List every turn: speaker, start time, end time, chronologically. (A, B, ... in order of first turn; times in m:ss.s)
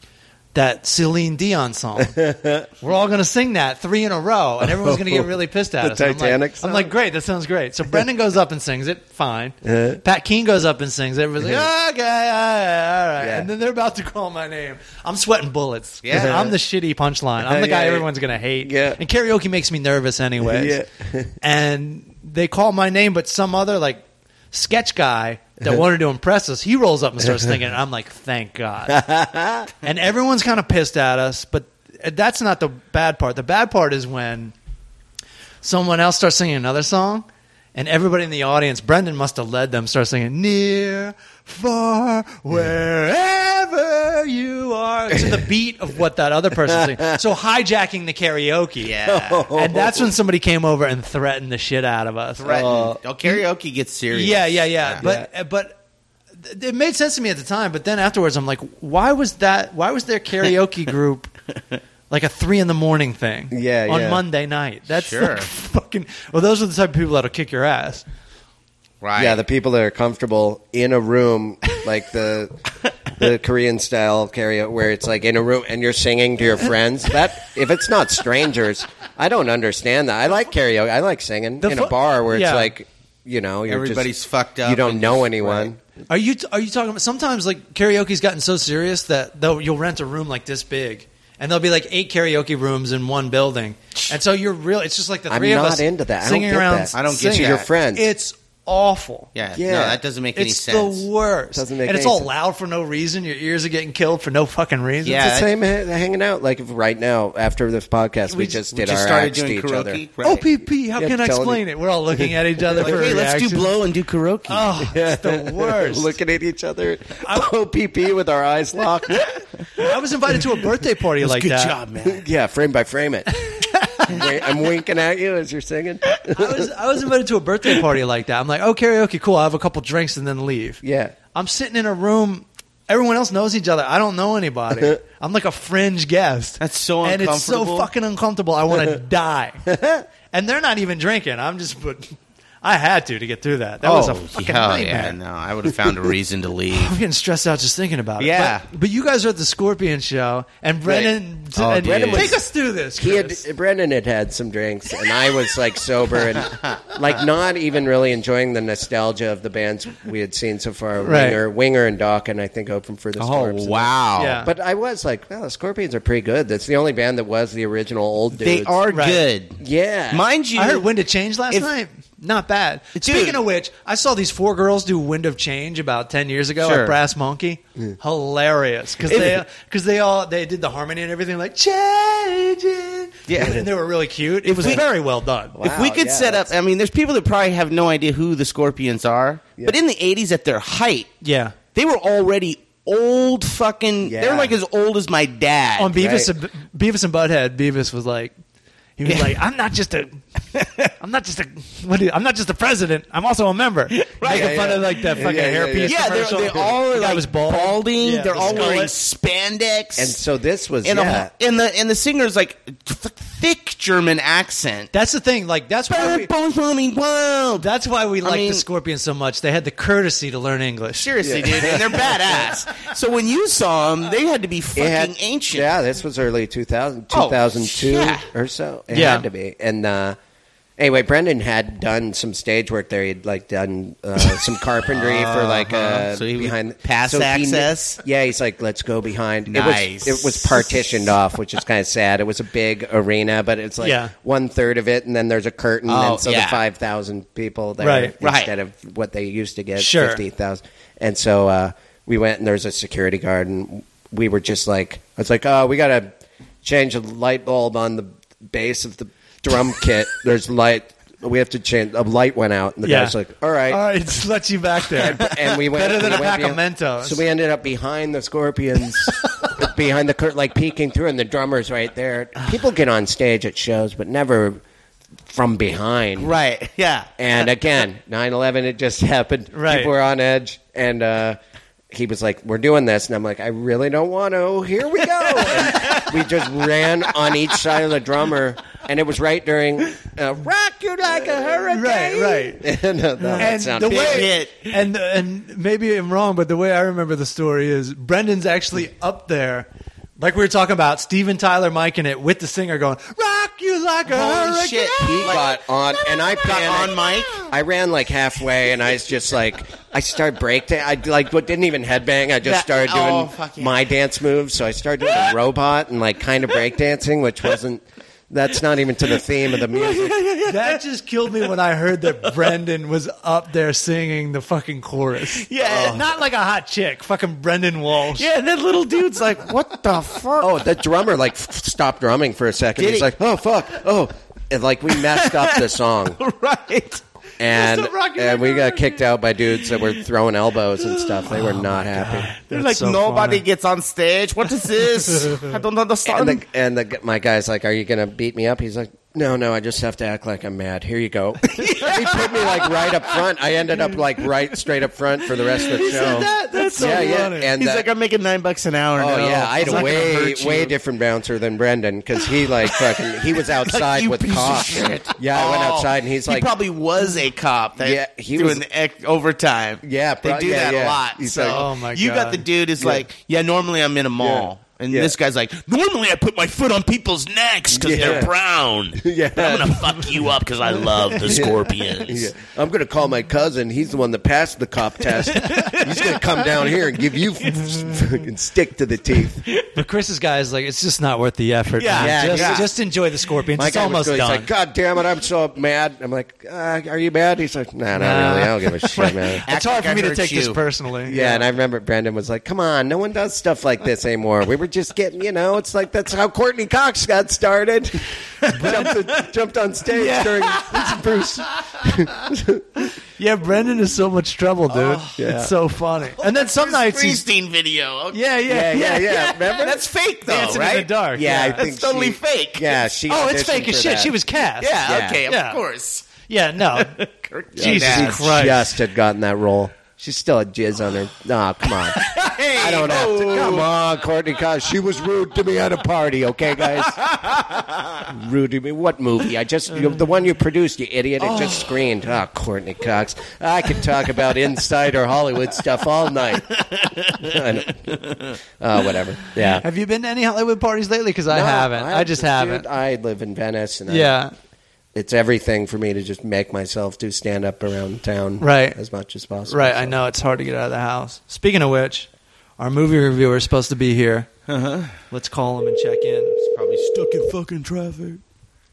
0:00.5-0:02.2 A
0:02.0-0:02.7 B
0:02.8-0:20.8 A
0:04.6-0:06.9 B
0:09.6-0:10.0 B
0:13.2-0:13.5 B
0:16.0-0:16.4 C
0:16.1-0:16.5 B
0:17.4-0:18.1 B
0:18.6-0:19.0 B
0:20.4-0:21.3 B
0:21.4-0:29.0 A
0:28.9-0:29.7 B
0:29.8-0:34.5 A
0:35.6-0:49.0 A
0:45.1-0:45.4 B
0:46.7-0:47.1 B
0:48.8-0:49.5 C
0:49.0-0:50.1 B
0:49.5-0:53.4 A
0:52.4-0:55.0 C
0:52.5-0:53.0 B
0:54.1-0:55.8 A
0:55.0-0:55.3 B
0:56.4-1:01.3 A
1:02.1-1:08.0 A
1:03.5-1:04.2 B
1:04.9-1:05.5 C
1:09.0-1:09.4 C
1:09.2-1:12.6 B
1:13.1-1:24.1 B
1:21.6-1:22.7 A
1:23.7-1:25.7 C
1:24.6-1:25.8 B
1:26.1-1:39.3 A
1:35.3-1:38.0 B
1:36.9-1:37.7 C
1:39.3-1:41.0 C
1:39.6-1:40.0 B
1:40.3-1:45.2 A
1:41.5-1:42.3 B
1:45.0-1:45.5 C
1:45.2-1:50.0 B
1:48.3-1:50.4 C
1:50.2-1:53.7 A
1:51.0-1:53.0 B
1:52.8-1:54.7 C
1:54.5-1:56.1 A
1:54.8-1:59.2 B
1:57.2-1:57.5 A
1:59.8-2:01.8 A
2:01.2-2:02.2 C
2:02.0-2:03.3 B
2:03.4-2:04.1 A
2:04.0-2:06.7 B
2:06.3-2:10.8 A
2:10.8-2:11.1 B
2:11.3-2:19.6 A
2:16.6-2:17.9 C
2:19.6-2:20.0 B
2:20.3-2:25.2 A
2:23.8-2:26.9 C
2:26.7-2:33.4 A
2:28.2-2:28.6 C
2:31.6-2:32.4 C
2:31.8-2:32.4 B
2:33.0-2:48.8 B
2:41.0-2:41.4 A
2:43.2-2:44.4 C
2:44.2-2:44.5 A
2:48.4-2:49.6 C
2:48.9-2:49.2 A
2:49.6-2:50.2 B
2:50.1-2:50.9 C
2:50.6-3:05.6 A
2:53.0-2:53.4 C
2:56.6-2:57.0 C
3:03.3-3:03.6 C
3:05.6-3:06.5 B
3:05.6-3:11.1 C
3:11.2-3:11.6 A
3:11.7-3:16.0 C
3:14.0-3:14.6 B
3:15.8-3:18.3 A
3:16.0-3:16.3 B
3:19.0-3:20.2 A
3:19.0-3:19.4 C
3:20.6-3:20.9 C
3:21.0-3:28.9 A
3:23.9-3:25.2 C
3:24.2-3:26.7 B
3:25.8-3:30.2 C
3:28.4-3:28.8 B
3:30.0-3:31.3 B
3:30.8-3:34.9 C
3:34.9-3:36.3 A
3:35.9-3:37.7 C
3:37.6-3:41.1 A
3:38.2-3:38.6 C
3:41.0-3:45.7 C
3:41.2-3:42.5 B
3:44.8-3:50.2 B
3:47.1-3:48.2 C
3:48.9-3:49.3 A
3:50.8-4:16.1 B
3:54.9-3:58.0 C
3:59.5-4:00.7 C
4:03.8-4:04.1 A
4:05.9-4:06.6 C
4:07.8-4:08.1 A
4:08.2-4:08.5 C
4:09.8-4:10.2 A
4:16.6-4:23.8 B
4:22.8-4:23.2 A
4:23.7-4:27.2 A
4:24.9-4:34.6 B
4:35.3-4:36.3 B
4:36.2-4:37.1 C
4:37.2-4:41.4 B
4:39.5-4:39.9 A
4:41.9-4:54.3 B
4:45.6-4:46.0 C
4:51.7-4:52.6 A
4:53.2-5:05.3 A
4:53.4-4:54.7 C
5:04.1-5:07.5 C
5:05.0-5:20.2 B
5:12.4-5:13.8 C
5:19.6-5:20.8 C
5:20.4-5:28.3 A
5:25.3-5:26.1 C
5:28.1-5:30.6 C
5:30.4-5:36.2 B
5:32.8-5:33.1 C
5:34.9-5:37.0 C
5:37.4-5:42.3 B
5:37.6-5:38.9 C
5:39.7-5:39.9 C
5:40.8-5:41.3 C
5:41.3-5:43.4 A
5:42.4-5:46.4 C
5:46.0-5:57.9 B
5:51.6-5:53.0 C
5:55.7-5:57.5 A
5:55.7-6:00.7 C
5:59.0-6:06.5 B
5:59.6-6:00.0 A
6:02.7-6:03.0 C
6:03.6-6:22.3 C
6:07.8-6:08.6 B
6:09.8-6:11.6 B
6:11.4-6:12.4 A
6:12.8-6:13.0 B
6:14.2-6:15.1 B
6:17.7-6:18.3 B
6:17.9-6:18.3 A
6:18.9-6:20.2 B
6:21.2-6:29.4 B
6:25.2-6:27.8 C
6:29.7-6:34.5 A
6:31.8-6:32.7 C
6:31.9-6:32.7 B
6:33.6-6:39.4 B
6:38.0-6:41.4 A
6:39.4-6:40.6 C
6:41.1-6:52.6 B
6:48.4-6:48.9 C
6:48.5-6:48.9 A
6:50.0-6:50.6 A
6:53.2-6:57.2 A
6:54.7-6:55.3 C
6:55.2-6:55.5 B
6:56.2-6:58.2 C
6:58.1-6:59.1 A
6:58.5-6:59.9 B
6:58.8-7:02.8 C
7:00.2-7:01.6 A
7:01.1-7:04.1 B
7:03.1-7:05.6 A
7:04.6-7:06.2 C
7:04.9-7:05.2 B
7:06.2-7:06.9 A
7:06.7-7:08.2 C
7:07.6-7:12.0 B
7:07.6-7:08.7 A
7:11.9-7:13.7 C
7:12.6-7:17.0 B
7:16.9-7:18.0 C
7:18.1-7:26.6 B
7:21.2-7:21.7 C
7:26.5-7:27.4 C
7:27.1-7:29.6 B
7:29.4-7:32.6 A
7:31.3-7:34.1 B
7:33.9-7:34.3 A
7:34.9-7:40.0 B
7:38.4-7:38.8 A
7:39.5-7:44.3 A
7:44.5-7:45.0 C
7:45.1-7:46.4 A
7:46.4-7:48.2 C